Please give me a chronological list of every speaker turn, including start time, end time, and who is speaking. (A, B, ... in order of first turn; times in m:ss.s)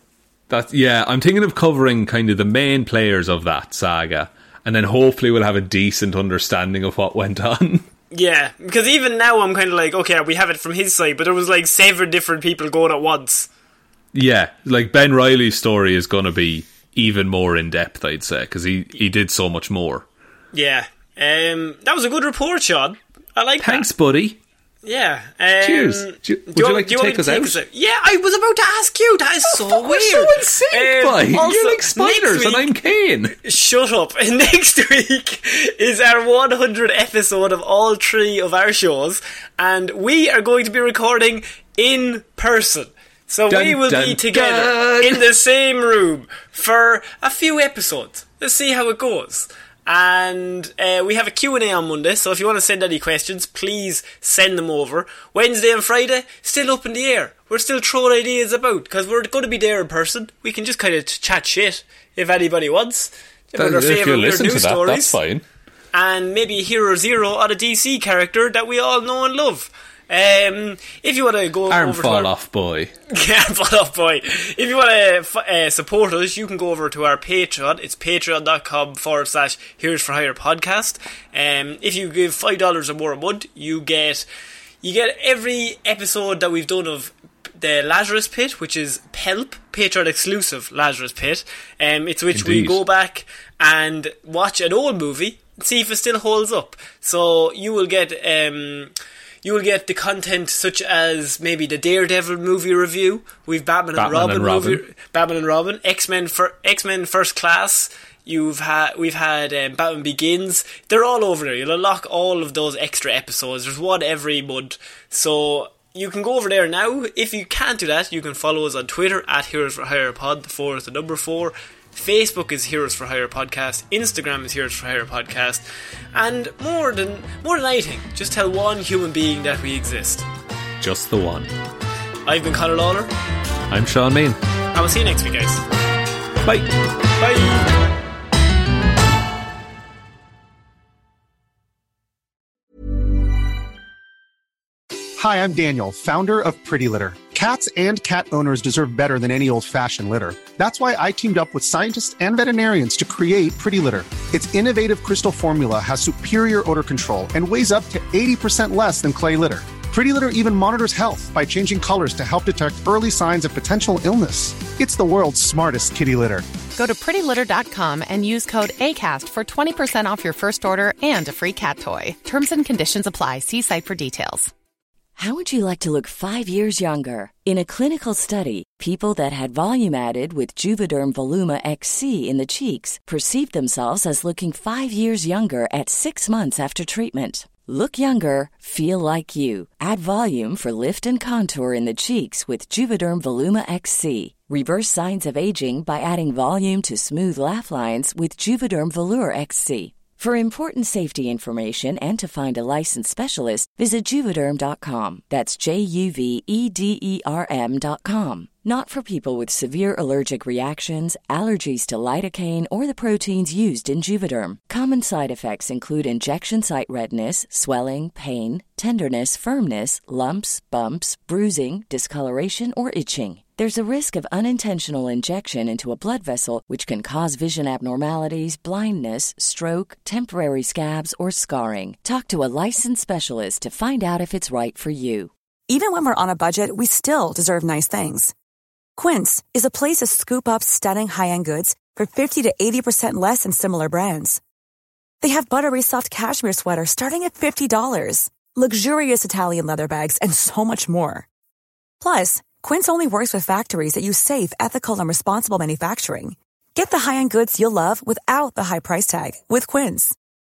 0:00.5-0:07.9 A
0:08.1-0:13.5 B
0:14.1-0:20.0 A
0:20.5-0:23.9 B
0:23.6-0:24.4 A
0:24.8-0:32.7 B
0:25.6-0:27.6 A
0:29.5-0:33.4 A
0:33.4-1:05.2 B
0:43.5-0:45.3 A
1:03.6-1:05.4 A
1:05.9-1:12.3 B
1:11.7-1:12.9 A
1:13.1-1:24.3 B
1:24.8-1:38.9 B
1:32.3-1:32.8 A
1:39.4-2:10.3 B
1:44.0-1:44.8 A
2:10.8-2:11.5 A
2:12.3-2:13.1 B
2:13.7-2:14.4 A
2:14.7-2:15.6 B
2:16.4-2:16.7 A
2:17.2-2:17.7 B
2:25.2-2:46.5 C
2:46.7-2:54.5 D
2:55.2-3:55.3 E
3:55.7-3:58.3 F
3:59.0-4:04.4 F
4:05.2-4:11.3 F
4:12.0-4:20.2 F